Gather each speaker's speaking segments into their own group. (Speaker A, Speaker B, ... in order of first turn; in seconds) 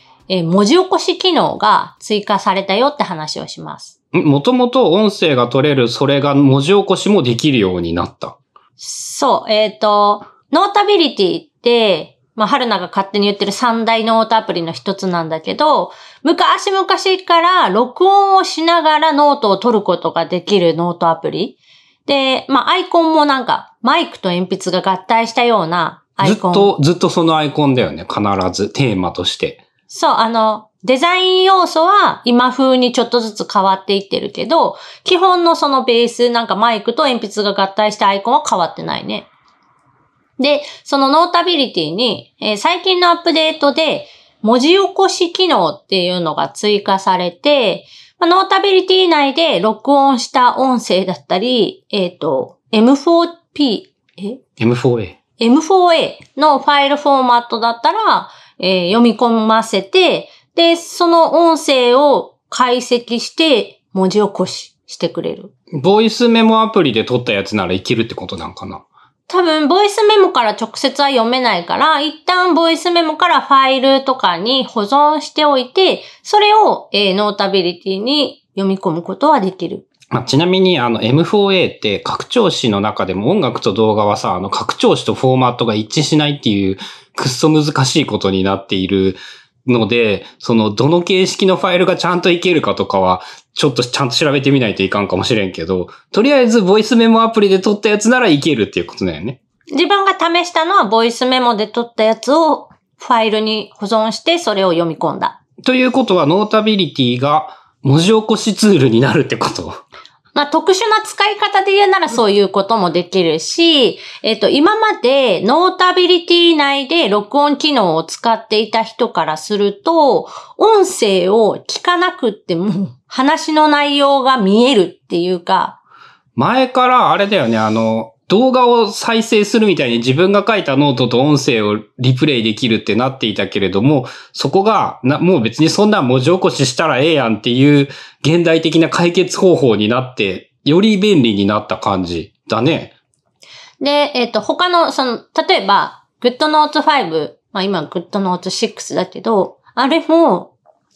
Speaker A: 0.3-3.9, 8.8-26.7, 29.9-39.3, 40.4-54.4, 55.4-65.5, 69.3-79.8, 99.7-105.4, 110.3-125.8, 143.8-150.5
Speaker B: 4.1-8.4, 26.2-29.6, 54.6-55.1, 65.8-68.8, 80.1-99.4, 105.6-109.8, 126.3-142.9